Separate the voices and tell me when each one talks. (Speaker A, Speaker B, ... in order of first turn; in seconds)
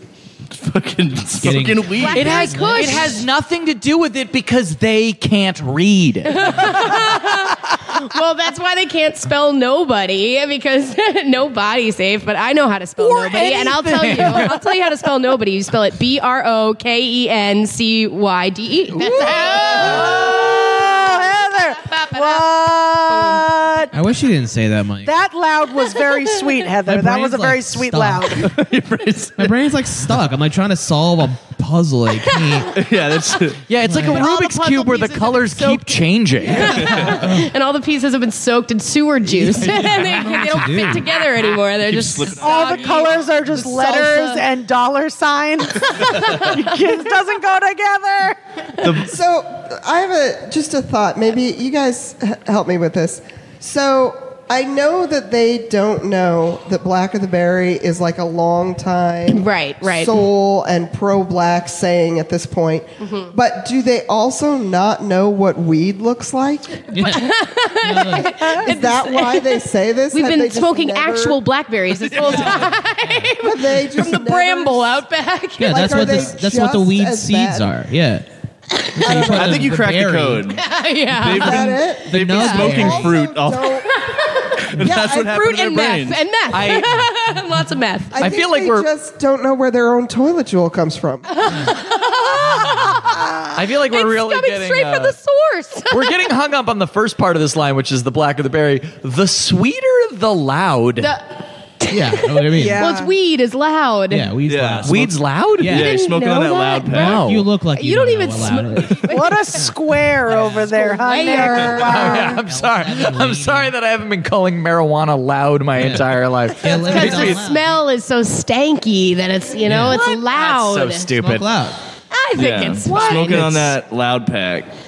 Speaker A: 0.5-2.3, 28.4-29.6, 32.7-33.6, 36.6-37.1, 41.8-43.1, 48.8-49.1, 79.1-83.8, 84.7-86.2, 104.5-105.1, 105.6-107.2, 122.3-124.7
Speaker B: 1.3-3.2, 23.9-25.1, 26.8-28.4, 29.4-32.7, 33.8-34.2, 37.0-37.5, 39.2-41.2, 66.9-68.4, 75.6-78.2, 78.9-80.4, 82.0-83.2, 101.9-102.9, 104.1-106.0, 106.9-109.1, 110.3-110.7, 111.6-113.7, 115.8-117.8, 119.6-120.0, 121.2-121.8
Speaker C: 2.0-3.3, 6.3-23.5, 25.8-26.1, 32.2-32.7, 34.1-44.4, 45.7-46.7, 59.3-60.2, 63.0-63.3, 67.0-76.3, 80.5-81.8, 82.3-83.0, 83.8-88.2, 91.3-93.2, 93.9-96.2, 101.0-104.3, 105.7-109.4, 110.7-112.2, 116.7-121.1, 122.1-123.7
Speaker D: 2.1-7.0, 13.0-14.7, 33.7-37.1, 86.5-87.1, 88.2-88.9, 93.5-95.1, 95.9-101.1, 104.8-105.9, 106.9-107.5, 111.6-117.4, 119.7-121.5, 122.9-123.5
Speaker E: 19.3-23.9, 25.0-28.5, 42.3-48.4, 109.0-112.3
Speaker F: 49.0-67.0, 68.6-71.4, 73.4-75.0, 75.6-77.7, 79.0-79.8, 81.3-83.9, 84.8-85.4, 88.1-91.4, 102.5-103.1